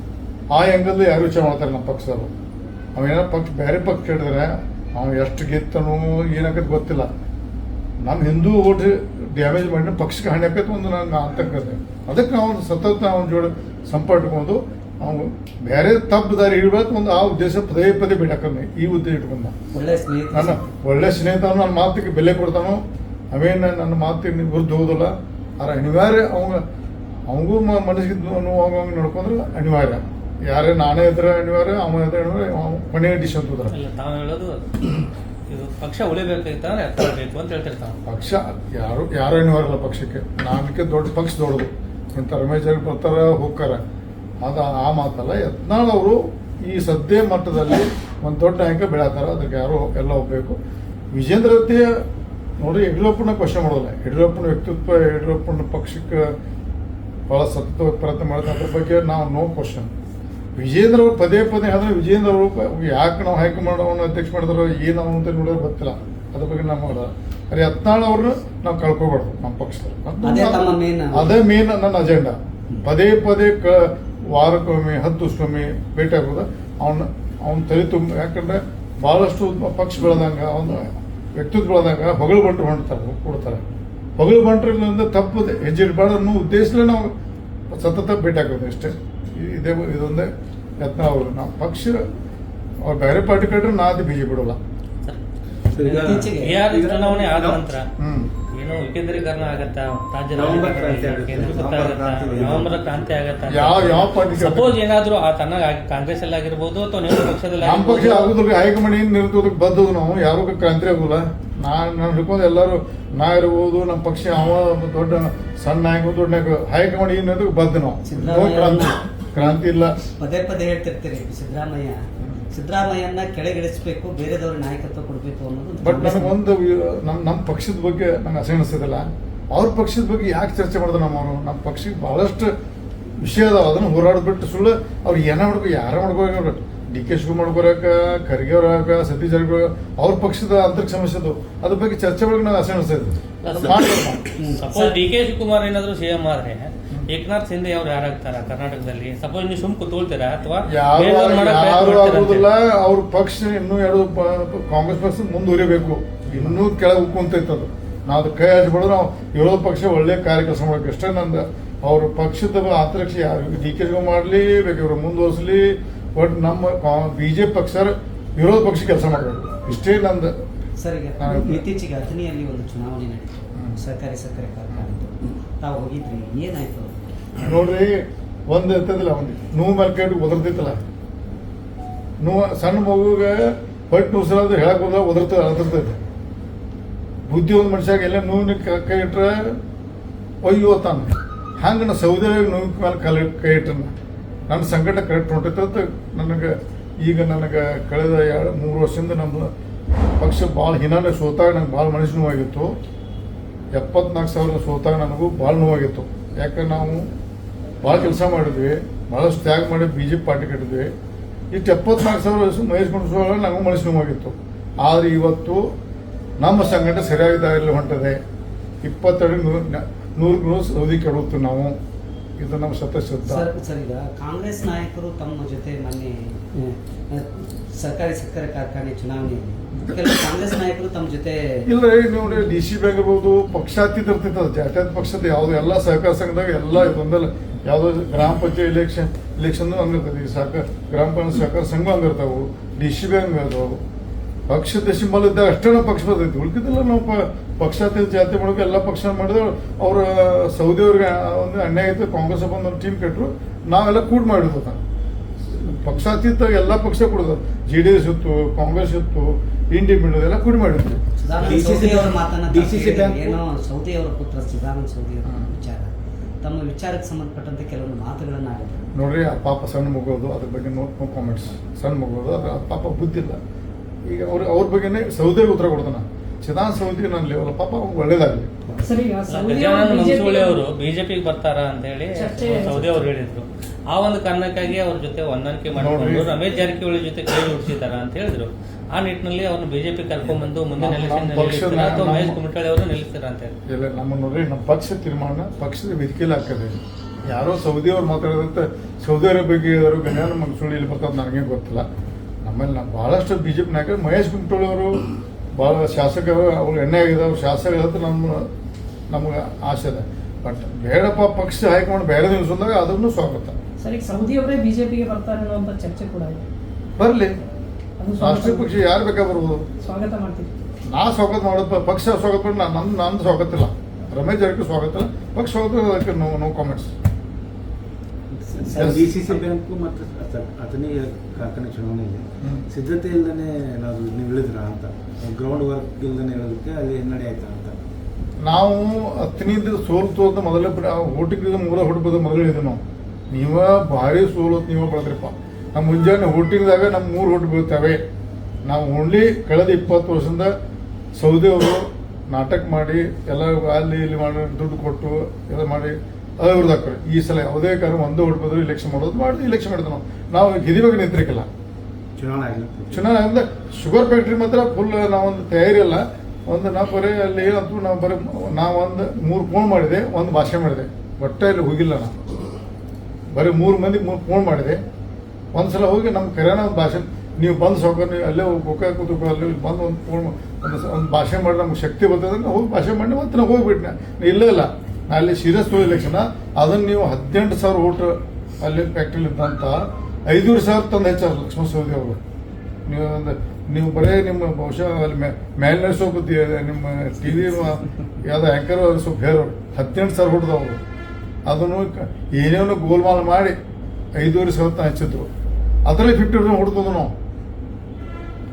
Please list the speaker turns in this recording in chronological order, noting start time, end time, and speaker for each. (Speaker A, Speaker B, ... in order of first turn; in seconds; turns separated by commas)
Speaker A: 0.5-2.3, Speaker A: 3.0-7.1, Speaker A: 8.0-19.6, Speaker B: 19.7-20.7, Speaker A: 20.3-26.6, Speaker A: 27.3-33.8, Speaker C: 33.7-38.0, Speaker A: 38.1-43.8, Speaker A: 44.4-50.6, Speaker A: 51.1-51.9, Speaker A: 52.6-56.3, Speaker A: 57.3-59.9, Speaker A: 60.6-83.6, Speaker B: 70.2-71.4, Speaker A: 84.2-87.1, Speaker A: 87.7-90.3, Speaker A: 90.8-92.0, Speaker A: 92.8-94.6, Speaker D: 95.7-97.7, Speaker C: 95.8-97.9, Speaker B: 96.0-96.6, Speaker A: 98.0-98.3, Speaker C: 98.5-108.4, Speaker D: 100.3-102.8, Speaker A: 103.5-104.8, Speaker A: 107.6-120.0, Speaker B: 118.0-122.0, Speaker B: 122.5-126.4, Speaker A: 125.8-132.5, Speaker A: 133.2-144.3, Speaker C: 143.4-143.8, Speaker B: 144.4-144.9, Speaker C: 144.5-152.5, Speaker A: 150.7-170.3, Speaker B: 170.8-177.0, Speaker A: 171.2-171.7, Speaker A: 173.6-173.8, Speaker A: 177.4-180.8, Speaker A: 182.2-186.0, Speaker A: 187.3-189.6, Speaker A: 190.4-193.9, Speaker A: 194.5-199.5, Speaker A: 200.2-202.7, Speaker A: 203.7-207.1, Speaker A: 207.8-210.9, Speaker A: 211.5-215.7, Speaker A: 216.4-218.2, Speaker A: 218.8-221.8, Speaker A: 222.4-223.5, Speaker B: 223.2-231.7, Speaker A: 231.7-243.8, Speaker A: 244.5-254.8, Speaker A: 255.6-261.1, Speaker B: 261.2-268.9, Speaker D: 261.4-263.4, Speaker A: 268.9-273.4, Speaker A: 274.1-278.6, Speaker E: 278.8-280.6, Speaker C: 279.3-293.5, Speaker E: 282.1-283.1, Speaker A: 285.8-286.4, Speaker A: 290.8-292.4, Speaker A: 293.7-296.8, Speaker A: 297.3-301.9, Speaker A: 302.4-305.0, Speaker A: 305.6-308.5, Speaker A: 309.1-313.6, Speaker E: 313.8-316.4, Speaker A: 317.0-317.4, Speaker E: 318.0-318.7, Speaker A: 318.2-319.6, Speaker E: 319.8-320.5, Speaker A: 320.9-326.9, Speaker D: 328.3-337.8, Speaker B: 328.7-329.0, Speaker A: 328.8-329.2, Speaker A: 338.4-348.0, Speaker A: 348.7-350.5, Speaker A: 351.2-361.5, Speaker D: 362.2-363.1, Speaker A: 362.9-372.1, Speaker A: 373.3-374.8, Speaker A: 375.5-392.2, Speaker A: 392.9-400.8, Speaker A: 401.5-403.6, Speaker A: 404.2-405.3, Speaker A: 405.9-407.1